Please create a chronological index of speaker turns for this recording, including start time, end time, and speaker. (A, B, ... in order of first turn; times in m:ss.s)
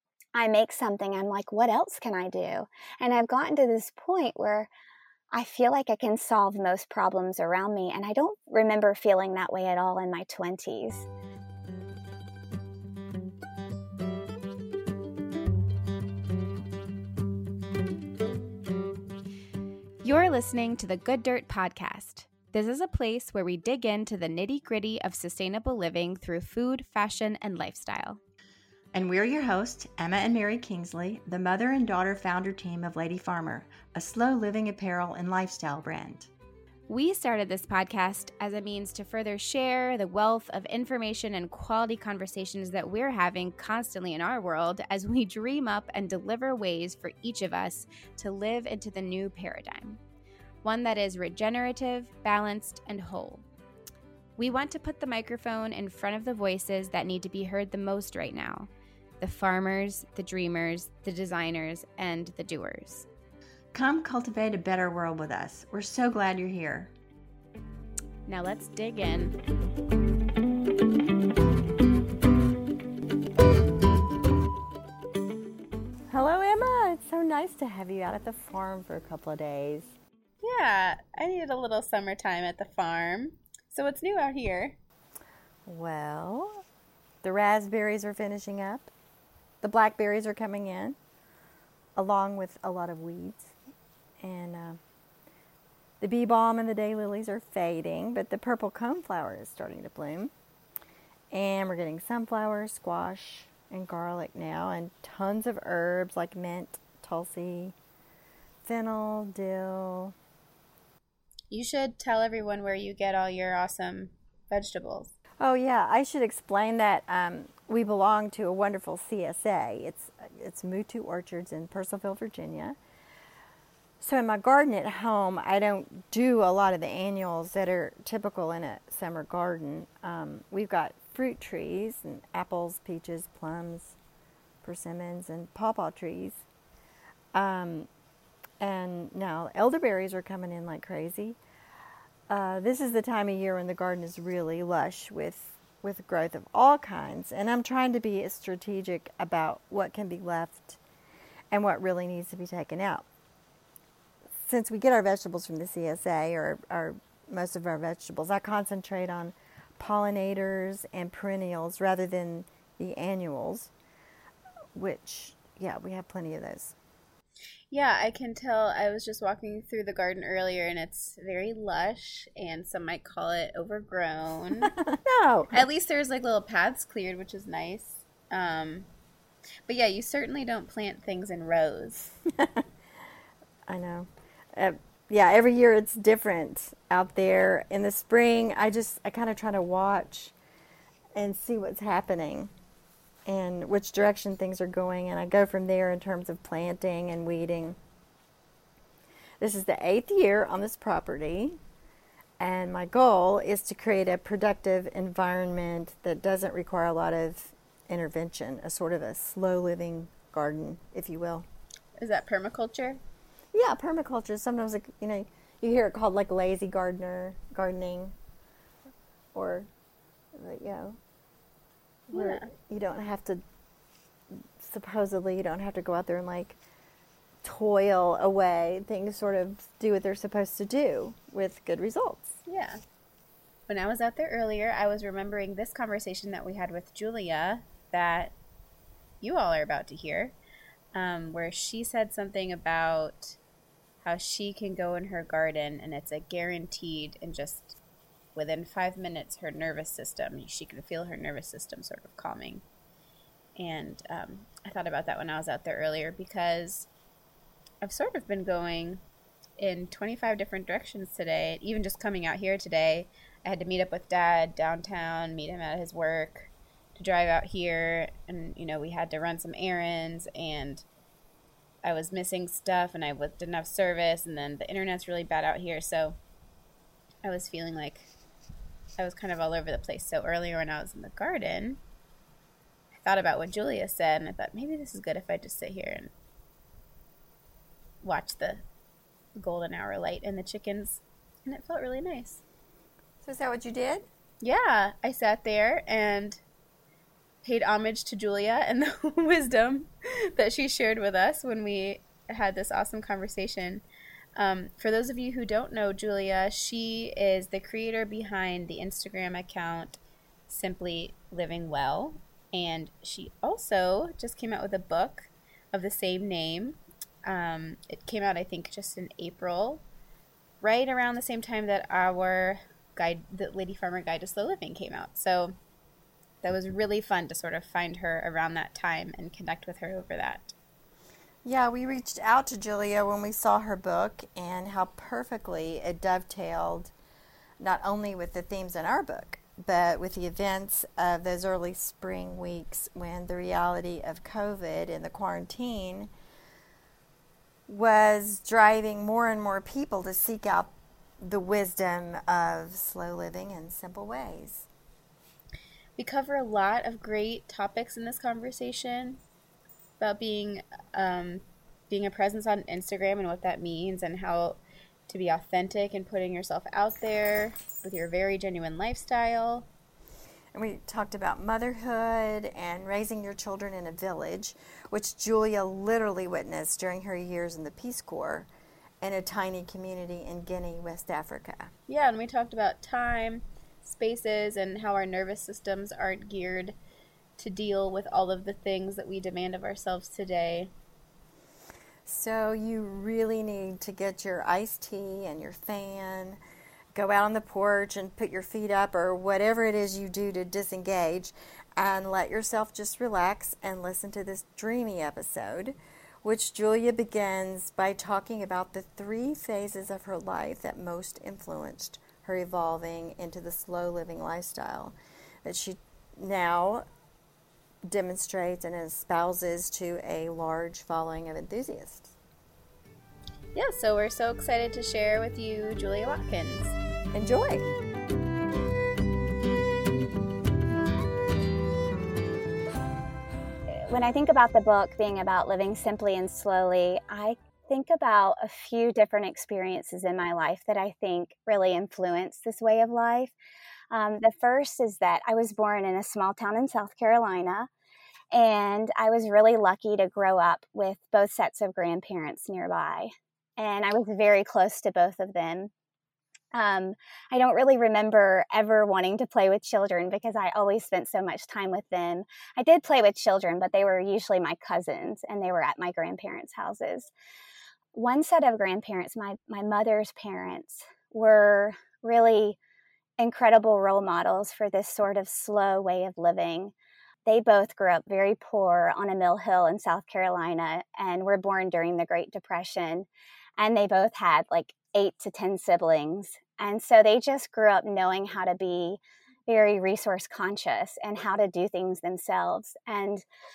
0:00.4-0:04.7 A
0:05.3-0:11.1 A
0:20.0-0:28.2 B
0:28.9-0:36.3 C
0:36.9-0:50.0 B
0:50.6-0:53.4 B
0:54.4-1:03.1 B
1:03.7-1:06.9 C
1:08.3-1:09.4 B
1:16.1-1:19.9 D
1:20.4-1:24.8 E
1:25.6-1:26.6 D
1:27.2-1:28.9 D
1:29.6-1:31.0 D
1:32.0-1:33.6 D
1:34.2-1:34.8 D
1:36.0-1:40.3 D
1:41.3-1:47.7 D
1:48.6-1:50.1 D
1:51.5-1:55.1 E
1:55.4-2:02.8 D
2:04.0-2:14.0 D
2:14.6-2:16.4 D
2:17.3-2:17.9 D
2:18.6-2:21.4 D
2:22.3-2:30.8 D
2:31.5-2:33.1 D
2:34.3-2:43.7 D
2:44.8-2:46.8 D
2:47.7-2:54.7 E
2:54.9-2:55.5 D
2:55.5-2:58.9 E
2:59.7-3:02.2 E
3:03.7-3:10.4 D
3:11.2-3:12.5 D
3:13.2-3:17.8 D
3:19.4-3:21.6 D
3:22.4-3:31.5 D
3:32.0-3:33.0 E
3:33.5-3:38.1 D
3:39.3-3:39.7 D
3:40.3-3:41.0 D
3:42.1-3:43.4 D
3:42.1-3:42.5 E
3:44.3-3:46.6 D
3:47.4-3:52.4 D
3:52.5-3:52.8 E
3:53.7-3:58.3 E
3:59.2-4:00.3 E
4:00.9-4:03.4 E
4:04.0-4:07.8 E
4:08.4-4:12.6 E
4:13.6-4:16.9 E
4:17.8-4:19.0 E
4:19.6-4:30.8 E
4:31.8-4:36.2 E
4:37.2-4:38.1 E
4:39.0-4:41.8 E
4:43.0-4:46.1 E
4:48.0-4:48.6 E
4:49.4-4:52.4 E
4:53.2-4:54.1 D
4:54.4-4:56.4 E
4:57.4-5:03.8 E
5:04.4-5:19.8 E
5:20.6-5:25.6 E
5:26.4-5:30.5 E
5:31.4-5:36.9 D
5:37.6-5:46.1 D
5:47.7-5:54.7 D
5:56.0-5:59.2 E
6:00.0-6:09.7 E
6:10.5-6:18.5 D
6:19.0-6:21.7 D
6:21.9-6:26.7 E
6:27.4-6:30.7 E
6:32.0-6:36.4 D
6:36.9-6:56.9 D
6:57.8-7:02.2 D
7:03.6-7:06.8 E
7:07.1-7:07.7 D
7:13.8-7:23.3 A
7:23.9-7:27.7 A
7:28.3-7:35.7 A
7:36.5-7:47.1 A
7:47.9-7:52.6 A
7:53.2-7:56.7 A
7:57.2-8:03.1 A
8:03.6-8:13.2 A